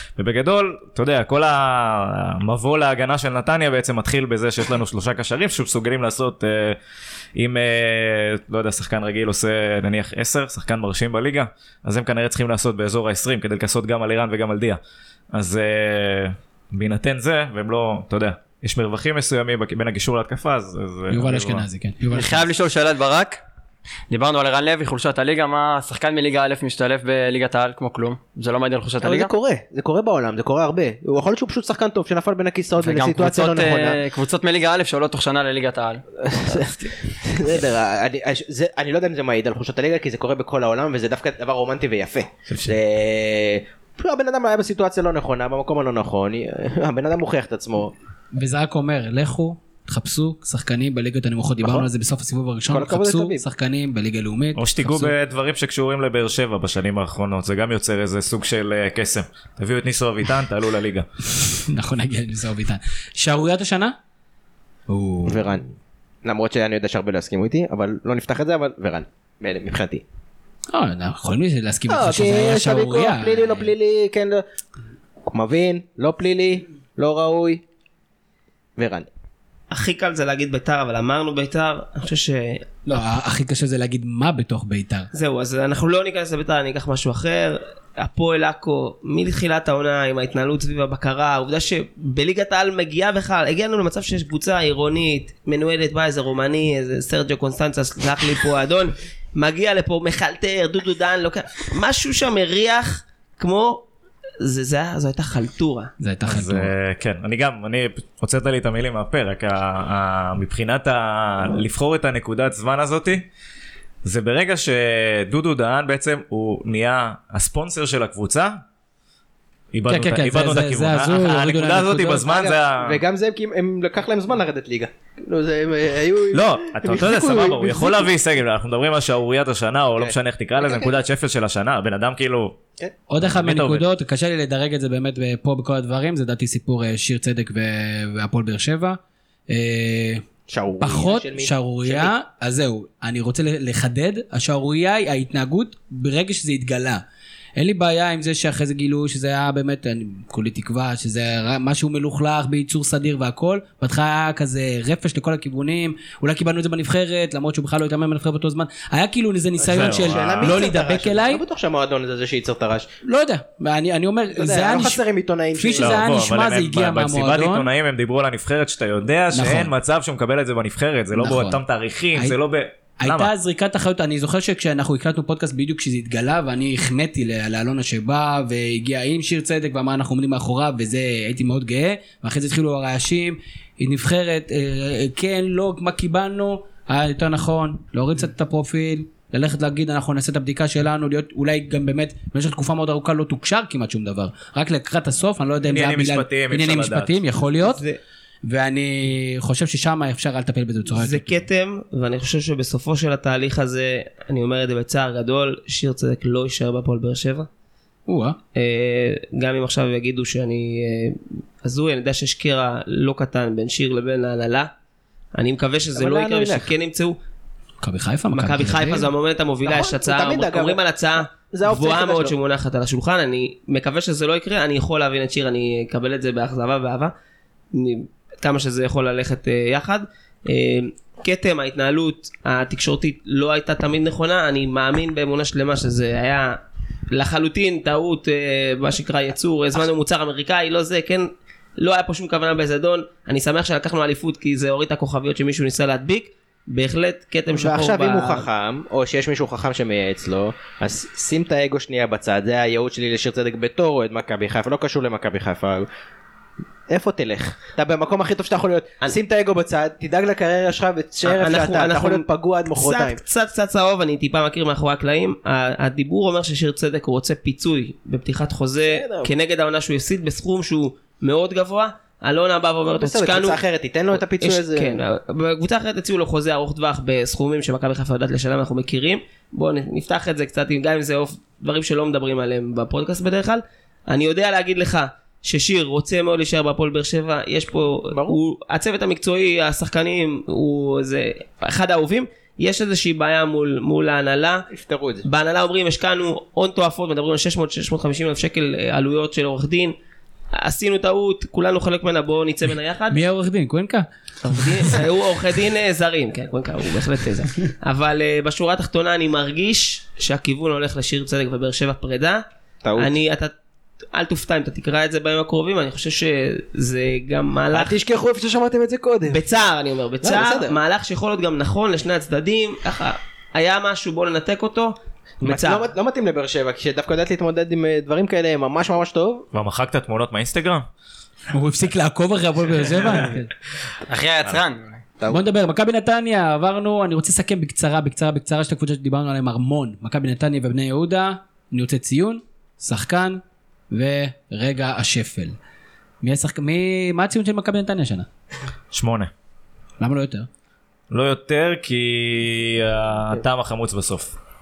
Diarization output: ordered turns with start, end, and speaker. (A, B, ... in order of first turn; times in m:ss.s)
0:00.2-0:06.8 A
0:07.4-0:14.8 A
0:15.3-0:21.6 A
0:21.1-0:22.5 B
0:22.1-0:23.4 C
0:24.1-0:29.3 C
0:29.0-0:34.0 D
0:32.8-0:36.7 C
0:36.2-0:47.9 D
0:42.5-0:42.7 A
0:48.3-0:55.1 B
0:51.6-0:51.9 D
0:52.7-0:53.4 D
0:54.6-1:01.1 A
1:01.3-1:04.0 B
1:04.9-1:05.5 B
1:05.3-1:05.7 D
1:06.2-1:10.0 D
1:10.7-1:13.7 B
1:11.9-1:14.4 D
1:15.3-1:17.6 D
1:18.8-1:19.1 D
1:19.7-1:22.6 E
1:22.9-1:25.1 B
1:25.1-1:43.9 E
1:44.4-1:45.9 E
1:46.0-1:46.7 B
1:46.2-1:53.3 A
1:54.0-1:58.6 A
1:59.7-2:03.0 A
1:59.9-2:02.3 B
2:02.3-2:08.1 D
2:06.3-2:12.6 A
2:10.0-2:10.9 D
2:13.1-2:20.2 B
2:13.2-2:13.8 A
2:20.5-2:22.1 D
2:20.8-2:27.0 B
2:27.6-2:41.4 B
2:39.6-2:42.9 D
2:39.7-2:40.6 A
2:43.0-2:45.0 B
2:44.4-2:46.1 D
2:45.6-2:47.7 B
2:45.8-2:53.3 A
2:49.3-2:49.7 B
2:51.2-2:51.6 B
2:53.0-3:17.8 B
3:15.7-3:17.2 A
3:17.6-3:18.0 E
3:18.4-3:21.4 B
3:20.9-3:27.5 E
3:28.1-3:28.4 B
3:28.6-3:34.7 E
3:35.4-3:37.2 E
3:36.0-3:36.7 D
3:37.8-3:39.1 B
3:38.3-3:47.1 E
3:39.6-3:40.8 D
3:41.3-3:42.4 D
3:47.7-3:56.6 E
3:57.1-4:08.5 E
4:07.6-4:15.9 D
4:16.9-4:23.2 D
4:21.2-4:33.6 E
4:28.9-4:29.3 D
4:33.0-4:35.0 D
4:34.1-4:54.7 E
4:48.1-4:48.4 D
4:54.7-4:55.3 D
4:55.2-4:59.9 E
5:00.5-5:03.2 E
5:03.1-5:04.9 B
5:04.4-5:12.4 E
5:12.8-5:13.1 D
5:13.0-5:13.5 E
5:14.1-5:18.0 E
5:17.7-5:19.4 D
5:19.3-5:25.9 E
5:20.2-5:20.8 D
5:25.4-5:29.5 D
5:29.5-5:30.9 A
5:31.5-5:33.5 B
5:34.1-5:35.0 C
5:35.3-5:45.6 B
5:46.2-5:48.3 B
5:48.9-5:49.3 A
5:50.0-5:50.5 B
5:51.1-5:54.4 A